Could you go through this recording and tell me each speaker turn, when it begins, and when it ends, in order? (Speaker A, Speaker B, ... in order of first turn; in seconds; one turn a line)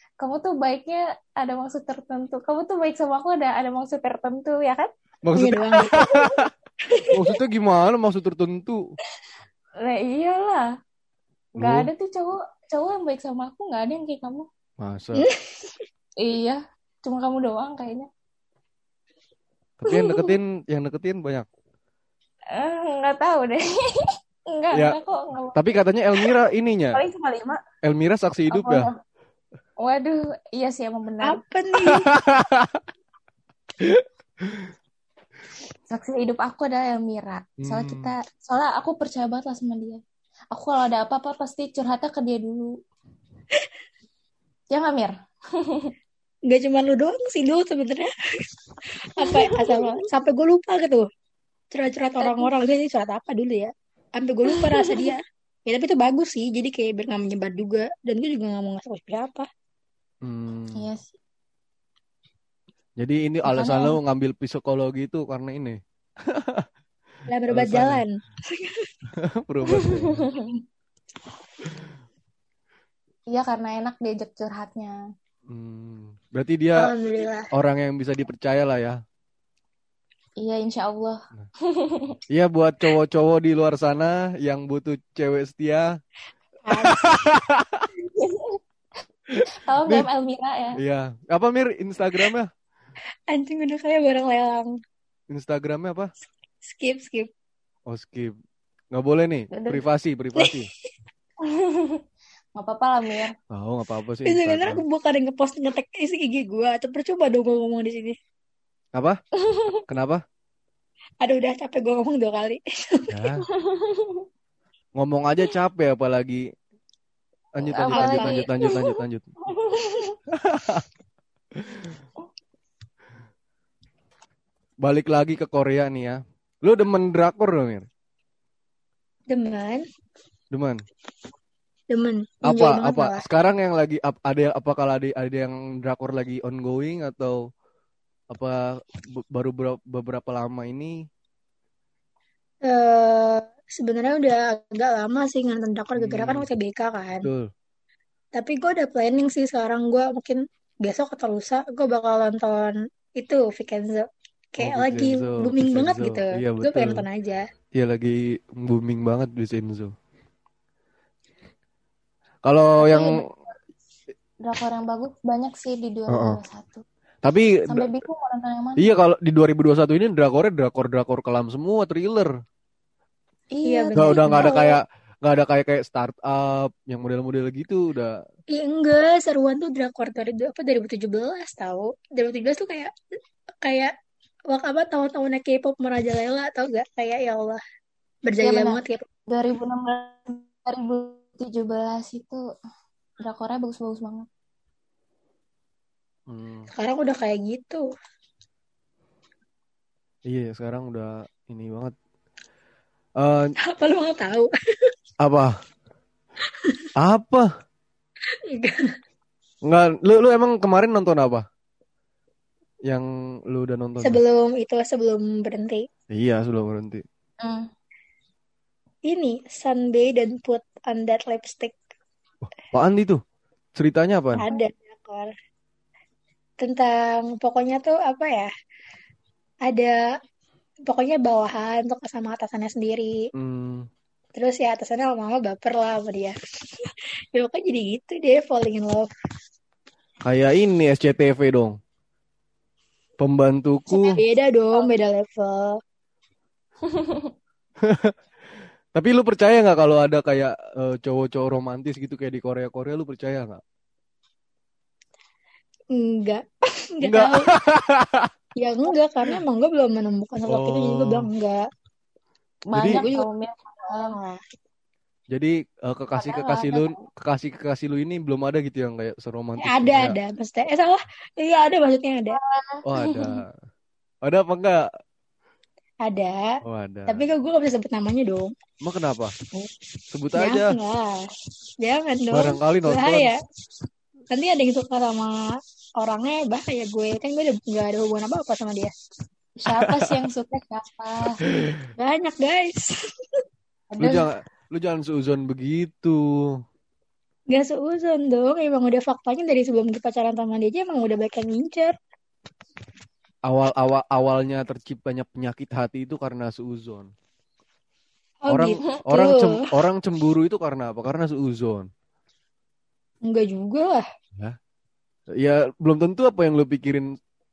Speaker A: 0.2-4.9
Speaker B: 5.2-6.5
Speaker C: 5.3-6.0
Speaker C: 6.9-7.2
Speaker B: 7.1-8.8
Speaker A: 9.8-10.6
Speaker B: 11.6-11.9
Speaker A: 11.6-14.5
Speaker B: 14.8-15.3
Speaker C: 15.2-15.8
Speaker A: 16.2-18.1
Speaker B: 19.8-21.4
Speaker A: 19.9-20.3
Speaker A: 22.5-25.6
Speaker B: 25.5-27.0
Speaker A: 26.9-27.6
Speaker B: 27.8-28.9
Speaker A: 28.5-28.9
Speaker A: 29.8-31.4
Speaker C: 31.2-32.1
Speaker B: 31.8-32.8
Speaker B: 33.8-34.7
Speaker A: 35.9-40.0
Speaker B: 37.6-38.1
Speaker A: 40.5-42.7
Speaker A: 44.7-45.9
Speaker C: 46.5-48.1
Speaker C: 49.1-51.1
Speaker A: 49.2-50.1
Speaker C: 51.7-59.4
Speaker A: 52.2-52.5
Speaker A: 54.5-55.1
Speaker B: 60.2-60.8
Speaker A: 60.7-61.1
Speaker B: 63.0-66.7
Speaker A: 63.4-64.0
Speaker C: 67.3-68.9
Speaker B: 67.5-68.0
Speaker B: 69.1-70.3
Speaker A: 69.7-70.6
Speaker A: 73.3-75.0
Speaker B: 75.5-76.9
Speaker C: 76.8-77.5
Speaker B: 77.5-79.0
Speaker A: 80.4-82.2
Speaker B: 82.3-85.9
Speaker C: 86.6-87.1
Speaker B: 86.7-87.8
Speaker A: 88.0-88.6
Speaker B: 89.3-90.0
Speaker A: 89.5-90.8
Speaker B: 90.8-92.5
Speaker C: 93.3-94.7
Speaker B: 95.3-96.1
Speaker C: 96.7-97.3
Speaker B: 97.9-98.3
Speaker B: 98.9-100.7
Speaker A: 99.5-99.8
Speaker C: 100.4-100.6
Speaker A: 101.4-102.0
Speaker A: 102.5-103.3
Speaker B: 103.5-104.8
Speaker C: 104.2-108.2
Speaker A: 109.4-109.8
Speaker B: 109.9-110.2
Speaker C: 111.2-113.2
Speaker B: 113.1-113.4
Speaker A: 113.5-114.2
Speaker B: 115.0-116.4
Speaker B: 117.5-119.3
Speaker A: 117.6-120.1
Speaker C: 117.9-118.5
Speaker B: 120.3-120.8
Speaker B: 121.5-121.9
Speaker B: 124.8-127.9
Speaker C: 129.3-129.8
Speaker B: 130.5-130.8
Speaker C: 131.9-133.2
Speaker B: 132.4-137.4
Speaker B: 138.3-140.9
Speaker C: 142.7-147.3
Speaker B: 146.0-146.5
Speaker B: 147.2-147.5
Speaker C: 148.3-157.4
Speaker B: 154.6-157.0
Speaker B: 157.7-159.9
Speaker B: 162.4-163.2
Speaker A: 162.8-163.2
Speaker A: 164.4-166.8
Speaker B: 166.1-166.4
Speaker B: 167.2-167.8
Speaker A: 167.7-168.8
Speaker B: 168.8-172.3
Speaker A: 173.5-174.8
Speaker C: 173.7-174.5
Speaker B: 173.9-178.2
Speaker C: 178.5-182.9
Speaker C: 183.6-183.9
Speaker C: 184.5-187.6
Speaker C: 188.2-189.0
Speaker A: 188.4-192.4
Speaker A: 193.2-194.3
Speaker B: 196.3-196.7
Speaker C: 196.7-197.8
Speaker B: 200.3-201.9
Speaker B: 203.2-203.5
Speaker C: 203.6-204.5
Speaker B: 205.2-205.5
Speaker B: 207.0-207.4
Speaker C: 208.5-208.8
Speaker B: 209.7-211.4
Speaker B: 212.9-214.2
Speaker C: 214.0-215.8
Speaker B: 216.1-217.0
Speaker A: 217.4-217.7
Speaker C: 219.1-221.8
Speaker B: 222.7-223.2
Speaker B: 223.7-224.4
Speaker C: 224.4-225.3
Speaker C: 226.6-228.5
Speaker C: 229.7-229.9
Speaker C: 230.8-233.1
Speaker B: 233.3-233.8
Speaker C: 234.3-239.1
Speaker B: 240.2-241.8
Speaker B: 243.2-244.2
Speaker A: 243.9-244.9
Speaker C: 244.1-245.8
Speaker A: 246.9-247.3
Speaker B: 247.8-248.1
Speaker B: 248.9-253.6
Speaker C: 256.0-257.5
Speaker B: 257.0-258.3
Speaker C: 258.6-261.6
Speaker B: 260.4-261.3
Speaker A: 262.7-264.1
Speaker B: 262.7-263.0
Speaker C: 262.9-263.3
Speaker C: 263.8-264.4
Speaker B: 265.3-270.1
Speaker A: 266.1-267.0
Speaker C: 269.6-272.4
Speaker A: 272.3-273.4
Speaker B: 272.9-273.5
Speaker B: 274.2-274.9
Speaker C: 276.1-276.6
Speaker B: 276.6-277.3
Speaker C: 277.1-278.5
Speaker B: 278.8-279.3
Speaker B: 280.1-280.8
Speaker C: 280.4-281.2
Speaker C: 281.8-283.4
Speaker B: 282.3-283.3
Speaker C: 284.3-285.3
Speaker C: 286.0-288.9
Speaker A: 289.6-291.4
Speaker C: 292.0-293.4
Speaker A: 293.9-294.3
Speaker B: 294.0-296.2
Speaker C: 297.5-301.9
Speaker B: 303.5-307.1
Speaker C: 308.4-309.5
Speaker B: 308.5-311.9
Speaker C: 313.2-314.0
Speaker B: 315.4-317.1